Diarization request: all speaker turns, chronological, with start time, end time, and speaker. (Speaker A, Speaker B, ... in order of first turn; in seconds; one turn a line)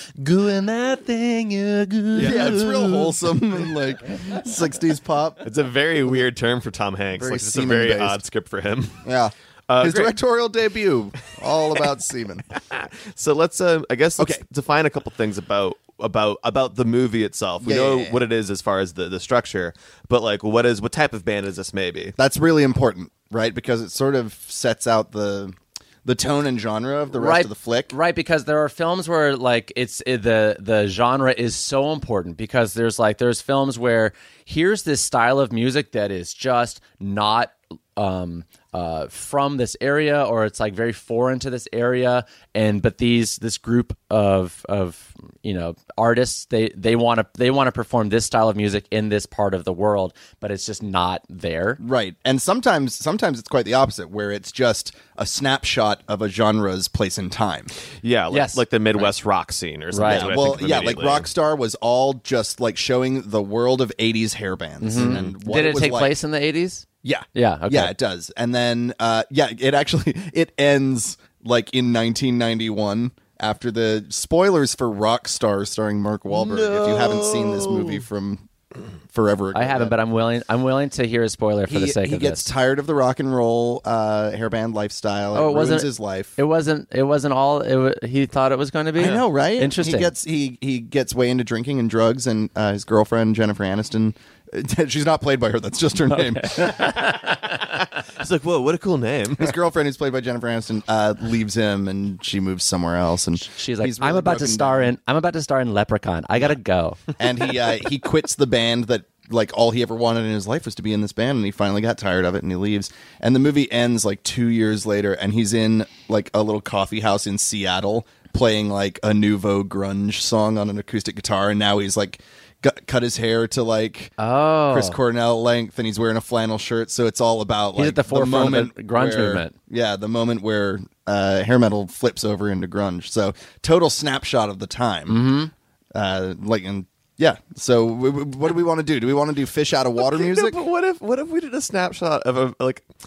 Speaker A: 0.2-3.1
Speaker B: 2.1-2.8
Speaker C: 2.2-5.4
Speaker B: 5.4-9.0
Speaker C: 7.2-8.2
Speaker C: 9.0-12.4
Speaker B: 9.7-10.2
Speaker B: 12.7-22.1
Speaker C: 14.2-14.4
Speaker C: 17.6-18.2
Speaker C: 22.2-27.9
Speaker A: 27.1-51.8
Speaker C: 51.8-57.7
Speaker B: 58.0-61.3
Speaker A: 58.3-59.1
Speaker A: 59.9-60.4
Speaker C: 60.0-66.1
Speaker A: 64.8-67.9
Speaker B: 64.9-65.3
Speaker C: 67.0-78.5
Speaker B: 76.4-78.0
Speaker C: 79.1-79.9
Speaker A: 79.5-82.5
Speaker C: 81.7-86.3
Speaker A: 85.3-90.1
Speaker C: 89.0-96.8
Speaker A: 96.1-97.7
Speaker B: 98.2-99.5
Speaker C: 99.4-104.9
Speaker A: 103.4-107.0
Speaker C: 107.2-124.1
Speaker A: 124.2-125.0
Speaker C: 124.7-135.3
Speaker A: 127.8-129.5
Speaker A: 135.1-135.5
Speaker C: 135.9-140.6
Speaker B: 140.0-142.9